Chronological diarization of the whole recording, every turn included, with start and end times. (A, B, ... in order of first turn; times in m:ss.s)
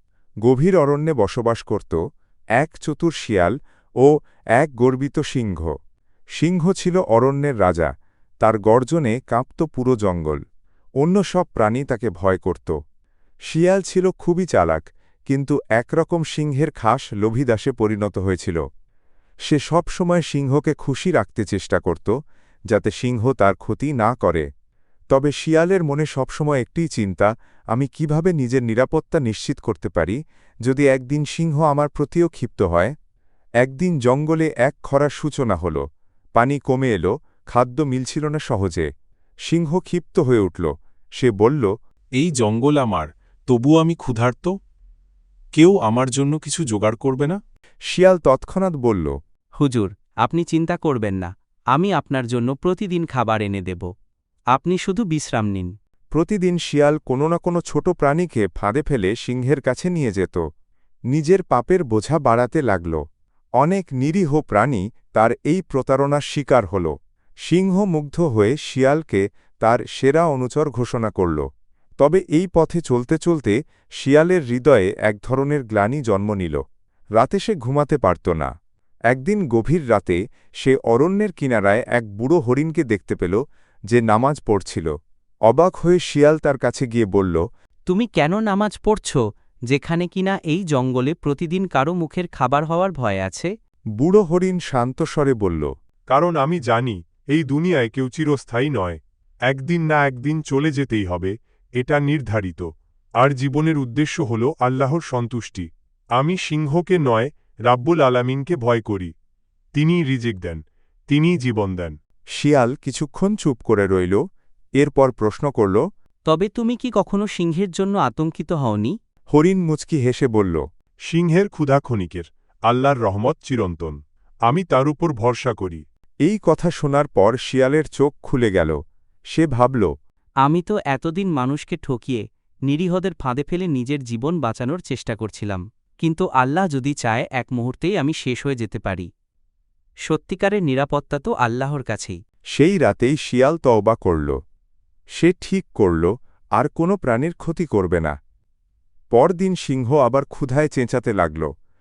0:00.5-0:02.0 A
0:02.6-0:05.7 A
0:06.4-0:07.9 A
0:08.4-0:10.4 A
0:11.0-0:12.7 A
0:13.5-0:18.6 A
0:19.5-0:22.1 A
0:22.7-0:24.4 A
0:25.1-0:32.9 A
0:33.6-0:35.8 A
0:36.4-0:38.9 A
0:39.5-0:41.7 A
0:42.2-0:44.5 B
0:45.6-0:47.4 B
0:47.9-0:49.1 A
0:49.6-0:53.9 C
0:54.5-0:55.7 C
0:56.1-1:00.4 A
1:01.1-1:03.0 A
1:03.6-1:06.9 A
1:07.5-1:11.4 A
1:12.0-1:16.6 A
1:17.2-1:18.5 A
1:19.1-1:23.4 A
1:23.9-1:24.9 A
1:25.5-1:27.4 A
1:27.9-1:33.5 C
1:34.0-1:35.7 A
1:36.1-1:42.7 D
1:43.2-1:49.1 D
1:49.7-1:52.0 D
1:52.4-1:54.2 A
1:54.8-1:55.8 A
1:56.3-1:58.9 C
1:59.3-2:00.6 A
2:01.1-2:04.0 D
2:04.5-2:05.8 D
2:06.2-2:08.8 A
2:09.3-2:09.9 A
2:10.4-2:19.1 C
2:20.1-2:22.2 C
2:22.6-2:24.4 A
2:25.2-2:28.1 A
2:29.1-2:31.5 A